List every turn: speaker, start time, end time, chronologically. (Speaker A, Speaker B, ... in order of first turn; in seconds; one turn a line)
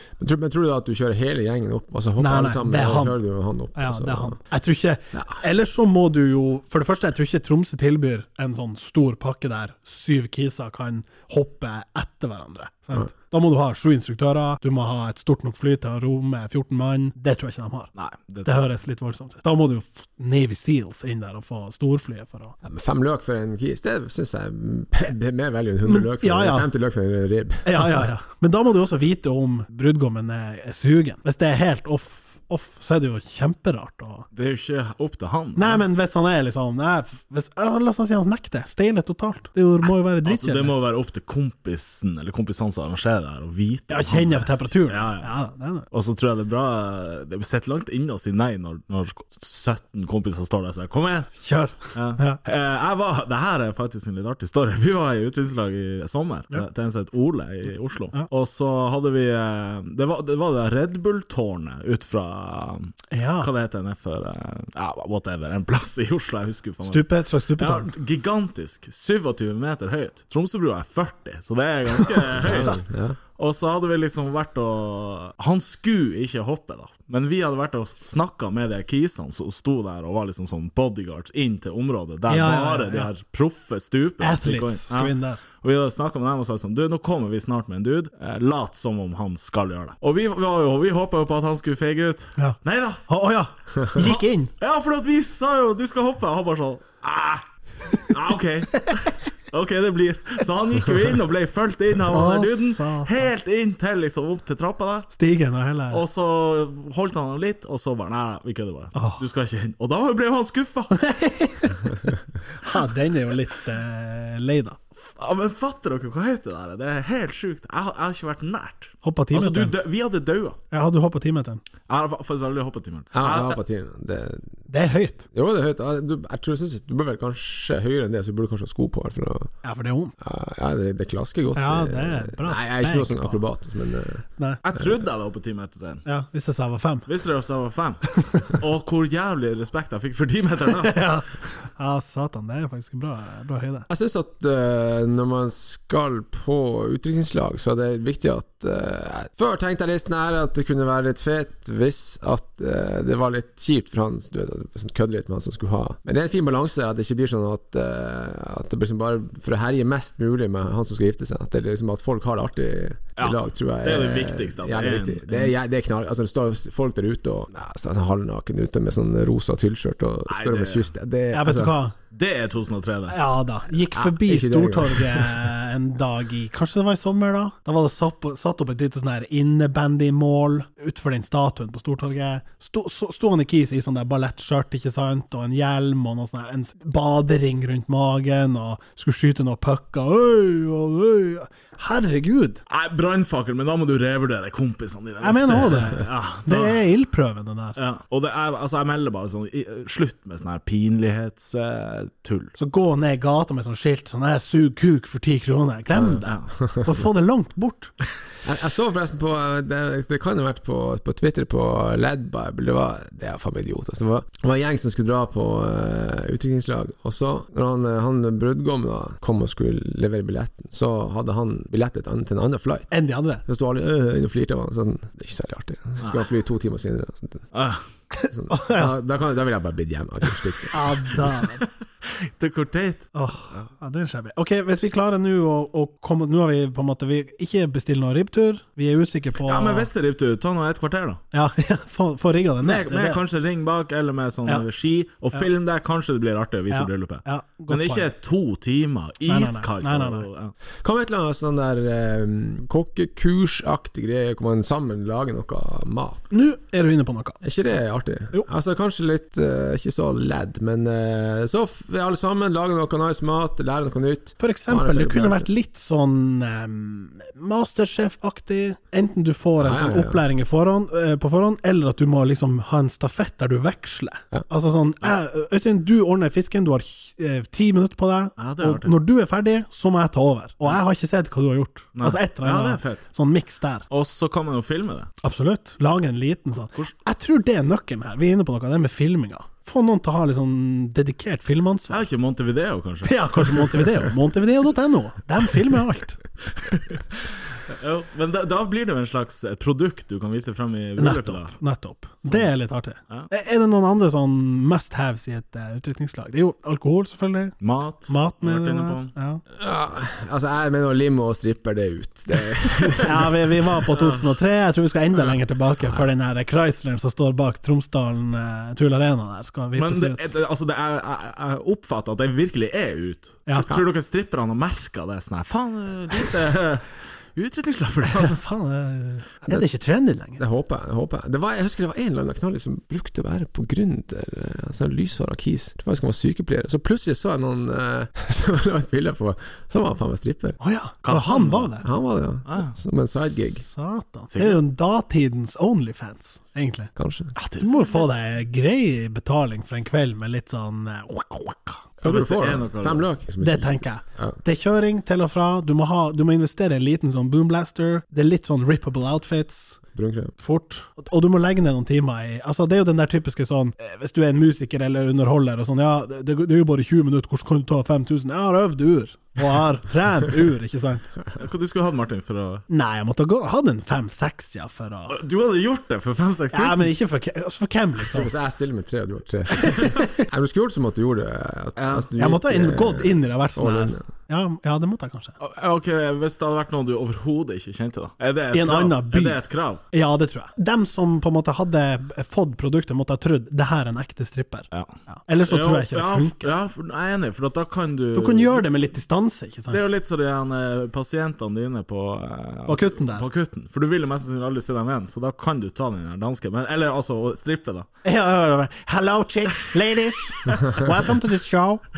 Speaker A: 0.2-4.4
Speaker B: 2.2-3.2
Speaker B: 3.7-17.9
Speaker C: 17.9-18.5
Speaker B: 18.4-22.5
Speaker A: 22.6-27.9
Speaker B: 25.8-26.7
Speaker B: 27.6-34.3
Speaker C: 34.3-35.8
Speaker B: 35.5-40.7
Speaker C: 40.2-45.3
Speaker B: 43.9-45.9
Speaker C: 45.9-51.4
Speaker B: 51.4-52.4
Speaker C: 51.9-72.8
Speaker B: 63.1-63.5
Speaker B: 66.8-67.9
Speaker A: 72.4-73.2
Speaker C: 73.4-93.0
Speaker B: 82.3-83.1
Speaker B: 84.2-85.4
Speaker B: 92.4-94.5
Speaker C: 94.0-105.1
Speaker B: 102.1-103.3
Speaker B: 105.1-106.0
Speaker C: 105.9-111.0
Speaker B: 108.9-109.2
Speaker B: 110.9-111.9
Speaker B: 112.5-114.8
Speaker C: 115.0-120.6
Speaker B: 119.0-119.7
Speaker B: 120.7-121.6
Speaker C: 121.9-123.6
Speaker A: 123.1-124.5
Speaker B: 124.7-125.2
Speaker A: 125.3-129.5
Speaker B: 129.6-130.1
Speaker A: 130.2-134.2
Speaker B: 131.6-133.4
Speaker C: 134.6-136.0
Speaker B: 136.1-137.1
Speaker C: 137.1-141.0
Speaker B: 140.8-143.9
Speaker A: 143.9-171.8
Speaker C: 163.2-165.5
Speaker C: 170.3-170.9
Speaker B: 171.3-171.9
Speaker C: 172.1-173.2
Speaker B: 173.1-192.6
Speaker A: 173.9-175.5
Speaker C: 192.7-196.8
Speaker B: 195.2-197.8
Speaker C: 197.8-202.5
Speaker B: 202.6-207.9
Speaker A: 205.9-206.8
Speaker A: 208.4-222.9
Speaker B: 222.9-223.4
Speaker A: 223.4-227.4
Speaker C: 227.5-227.8
Speaker B: 228.2-228.9
Speaker A: 228.3-231.1
Speaker B: 230.7-231.6
Speaker C: 232.0-233.7
Speaker B: 233.1-239.9
Speaker C: 239.4-241.2
Speaker B: 241.3-243.2
Speaker C: 242.6-250.5
Speaker B: 246.7-248.1
Speaker B: 249.3-250.3
Speaker A: 250.8-256.2
Speaker B: 256.3-257.4
Speaker A: 257.4-265.5
Speaker B: 264.4-283.9
Speaker A: 269.6-270.2
Speaker C: 278.4-278.9
Speaker C: 281.9-283.1
Speaker C: 283.9-285.1
Speaker B: 285.2-292.1
Speaker C: 291.9-294.0
Speaker B: 293.0-296.2
Speaker C: 296.6-301.6
Speaker B: 301.0-307.6
Speaker C: 307.6-309.1
Speaker B: 308.1-309.4
Speaker A: 309.5-313.4
Speaker B: 313.0-320.2
Speaker C: 313.9-314.2
Speaker C: 319.8-328.4
Speaker B: 328.1-330.4
Speaker A: 330.4-340.6
Speaker B: 340.6-341.9
Speaker C: 341.0-341.7
Speaker A: 341.8-343.6
Speaker C: 342.5-342.7
Speaker B: 343.6-346.9
Speaker C: 344.3-344.6
Speaker A: 346.9-347.3
Speaker C: 347.4-348.1
Speaker B: 347.6-351.9
Speaker C: 352.0-353.1
Speaker A: 352.0-354.4
Speaker B: 353.4-359.8
Speaker A: 359.9-360.3
Speaker B: 360.4-371.1
Speaker C: 371.3-372.6
Speaker B: 372.7-375.2
Speaker C: 375.1-376.9
Speaker B: 376.5-378.3
Speaker A: 378.0-384.0
Speaker C: 379.6-379.9
Speaker B: 379.7-380.0
Speaker C: 381.8-382.1
Speaker B: 382.2-385.3
Speaker C: 385.4-389.8
Speaker B: 388.5-389.4
Speaker B: 389.9-396.5
Speaker C: 395.4-398.6
Speaker B: 398.1-399.9
Speaker C: 399.7-407.9
Speaker B: 402.7-403.2
Speaker B: 408.0-411.8